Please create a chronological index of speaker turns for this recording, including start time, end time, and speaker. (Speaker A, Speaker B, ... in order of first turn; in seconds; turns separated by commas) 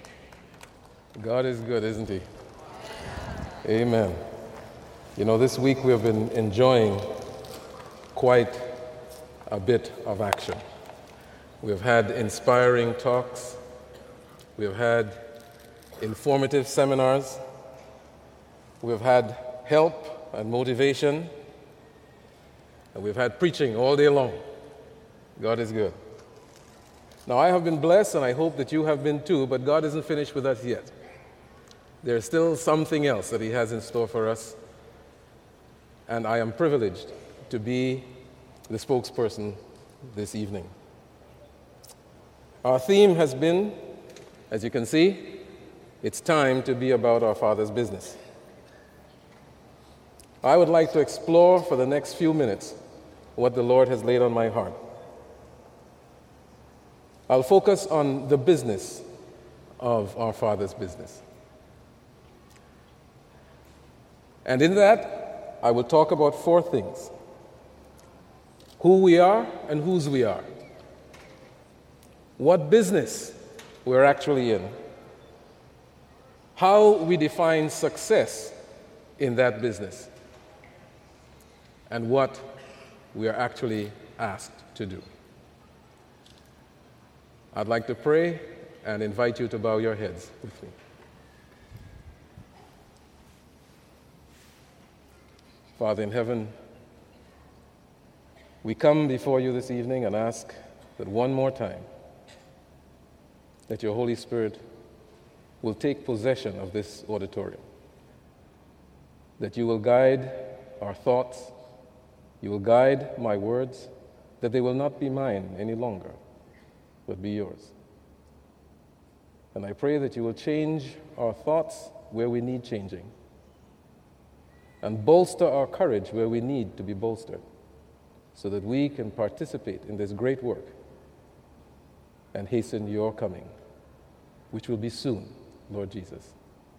Speaker A: 1.1-2.2, Speaker A: 3.6-4.2, Speaker A: 5.2-7.1, Speaker A: 8.1-8.8, Speaker A: 9.5-10.6, Speaker A: 11.6-13.6, Speaker A: 14.6-15.2, Speaker A: 16.0-17.4, Speaker A: 18.8-21.3, Speaker A: 22.9-24.4, Speaker A: 25.4-25.9, Speaker A: 27.2-30.9, Speaker A: 32.0-34.6, Speaker A: 36.1-38.1, Speaker A: 38.7-39.6, Speaker A: 40.1-40.7, Speaker A: 42.6-43.8, Speaker A: 44.5-45.4, Speaker A: 46.0-48.2, Speaker A: 50.4-52.8, Speaker A: 53.4-54.8, Speaker A: 57.3-59.0, Speaker A: 59.8-61.2, Speaker A: 64.4-67.1, Speaker A: 68.8-70.5, Speaker A: 72.4-74.7, Speaker A: 76.5-78.5, Speaker A: 79.2-80.1, Speaker A: 81.9-82.5, Speaker A: 83.1-85.0, Speaker A: 87.5-90.8, Speaker A: 95.8-96.5, Speaker A: 98.6-101.8, Speaker A: 103.7-104.6, Speaker A: 105.6-107.6, Speaker A: 109.4-111.5, Speaker A: 112.4-116.2, Speaker A: 117.0-117.7, Speaker A: 119.5-123.1, Speaker A: 124.8-127.4, Speaker A: 128.3-130.7, Speaker A: 132.3-133.5, Speaker A: 134.5-136.3